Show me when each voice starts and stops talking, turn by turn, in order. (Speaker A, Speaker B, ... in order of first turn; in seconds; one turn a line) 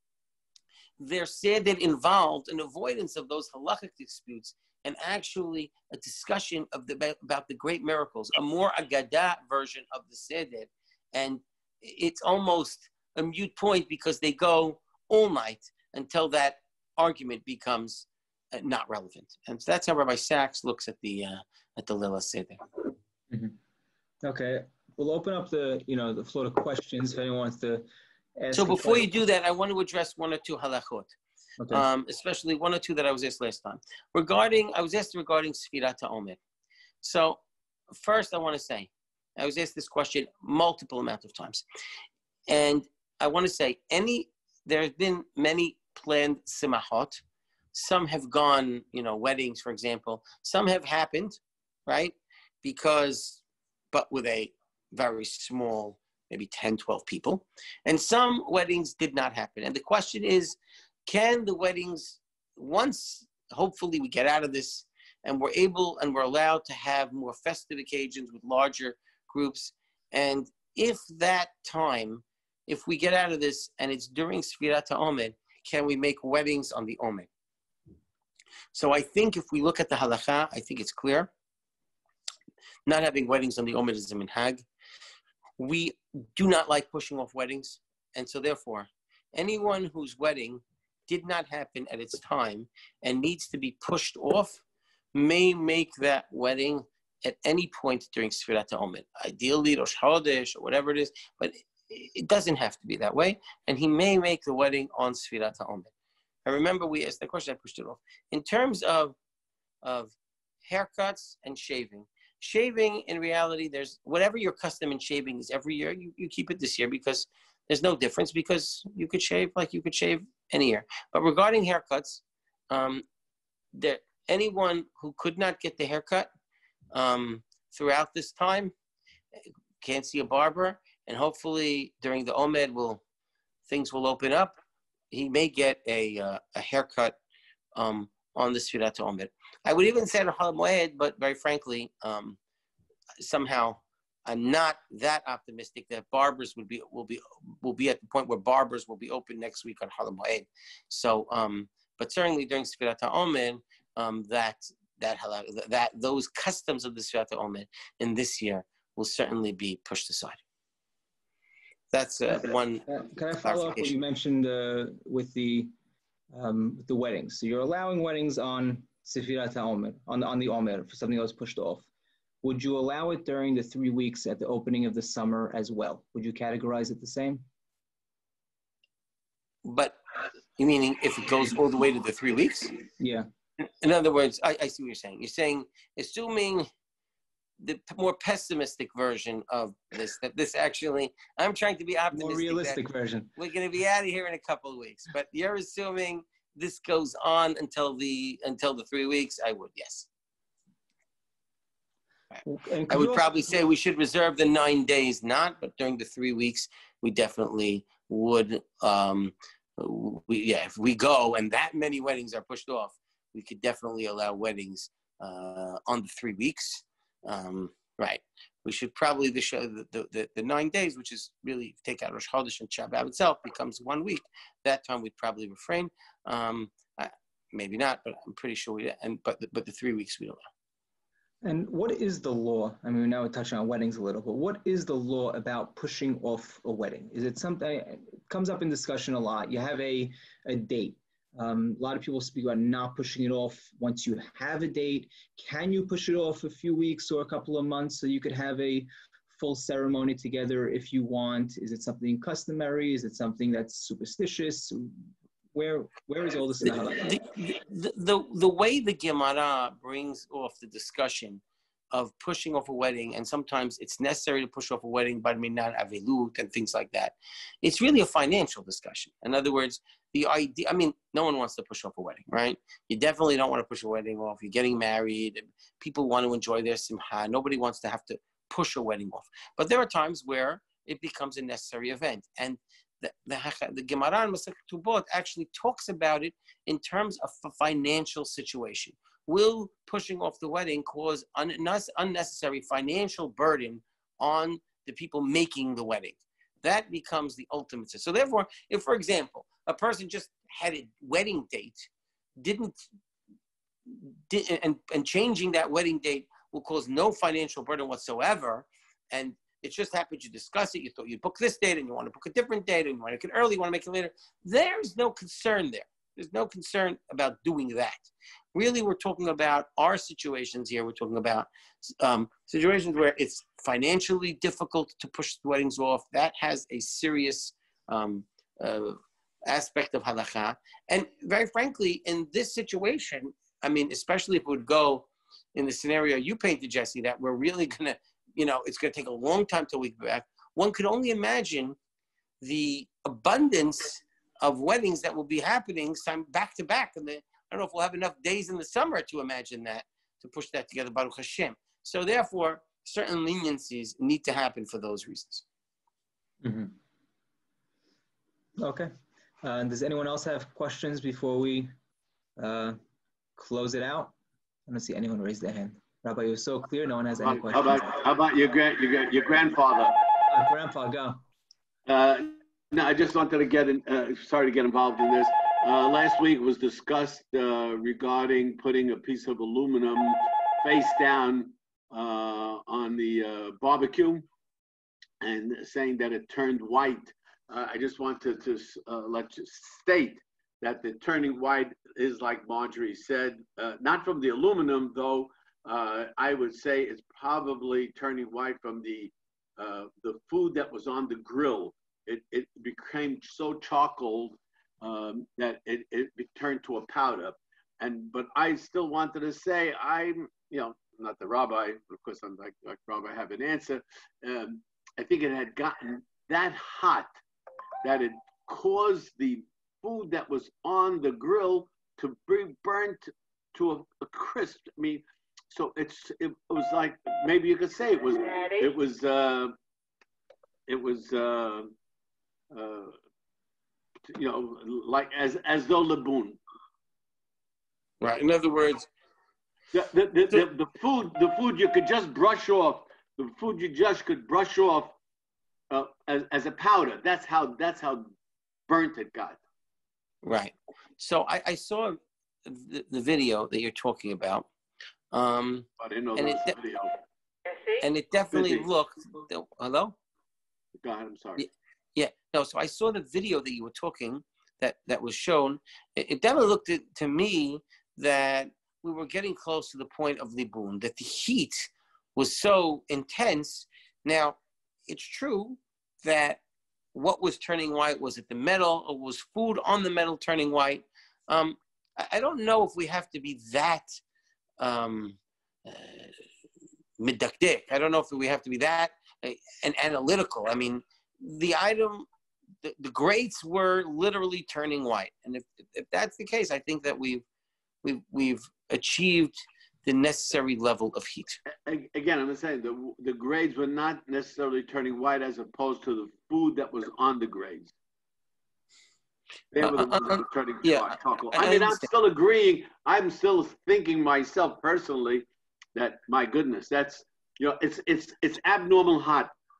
Speaker A: 1.0-22.6
Speaker B: 23.3-23.5
Speaker B: 24.2-29.1
Speaker A: 28.5-31.1
Speaker B: 31.6-31.8
Speaker A: 31.7-36.4
Speaker A: 37.0-37.4
Speaker A: 37.9-41.6
Speaker A: 42.5-47.2
Speaker A: 47.7-53.4
Speaker A: 53.9-77.3
Speaker A: 78.7-81.3
Speaker A: 82.8-84.6
Speaker A: 85.6-94.6
Speaker A: 95.1-105.9
Speaker A: 106.5-109.2
Speaker A: 109.8-110.1
Speaker A: 110.6-123.0
Speaker A: 123.7-126.3
Speaker A: 126.9-128.7
Speaker A: 129.8-133.0
Speaker A: 133.7-134.6
Speaker A: 135.1-137.2
Speaker A: 137.7-142.4
Speaker A: 143.2-160.4
Speaker A: 161.9-162.8
Speaker B: 162.3-165.7
Speaker A: 163.4-163.9
Speaker B: 166.3-171.9
Speaker B: 172.4-177.4
Speaker A: 179.6-180.0
Speaker A: 180.6-182.7
Speaker B: 183.0-183.3
Speaker A: 183.8-186.7
Speaker A: 187.6-192.8
Speaker B: 192.1-193.3
Speaker A: 193.3-200.1
Speaker B: 202.4-203.3
Speaker A: 202.9-230.4
Speaker B: 231.4-254.9
Speaker B: 255.5-257.2
Speaker A: 256.6-261.4
Speaker A: 261.9-302.8
Speaker A: 303.9-341.8
Speaker A: 342.4-355.4
Speaker B: 356.4-356.7
Speaker B: 358.6-358.9
Speaker B: 359.4-361.7
Speaker B: 362.4-362.8
Speaker B: 363.4-364.1
Speaker B: 364.7-368.0
Speaker C: 367.2-370.0
Speaker B: 370.3-371.2
Speaker C: 371.9-384.2
Speaker C: 385.2-417.2
Speaker C: 417.8-429.5
Speaker C: 430.7-431.7
Speaker C: 432.5-432.9
Speaker C: 434.1-436.4
Speaker A: 438.0-438.9
Speaker C: 439.7-444.9
Speaker C: 445.7-448.1
Speaker C: 448.7-449.4
Speaker A: 450.2-454.5
Speaker A: 455.1-456.5
Speaker C: 455.8-456.9
Speaker A: 457.8-459.9
Speaker C: 458.3-458.6
Speaker C: 460.8-461.4
Speaker A: 461.4-476.4
Speaker A: 476.9-483.9
Speaker A: 484.6-486.1
Speaker A: 487.0-492.1
Speaker A: 492.6-497.2
Speaker A: 497.8-501.4
Speaker C: 501.6-507.7
Speaker C: 509.5-519.3
Speaker A: 509.6-511.9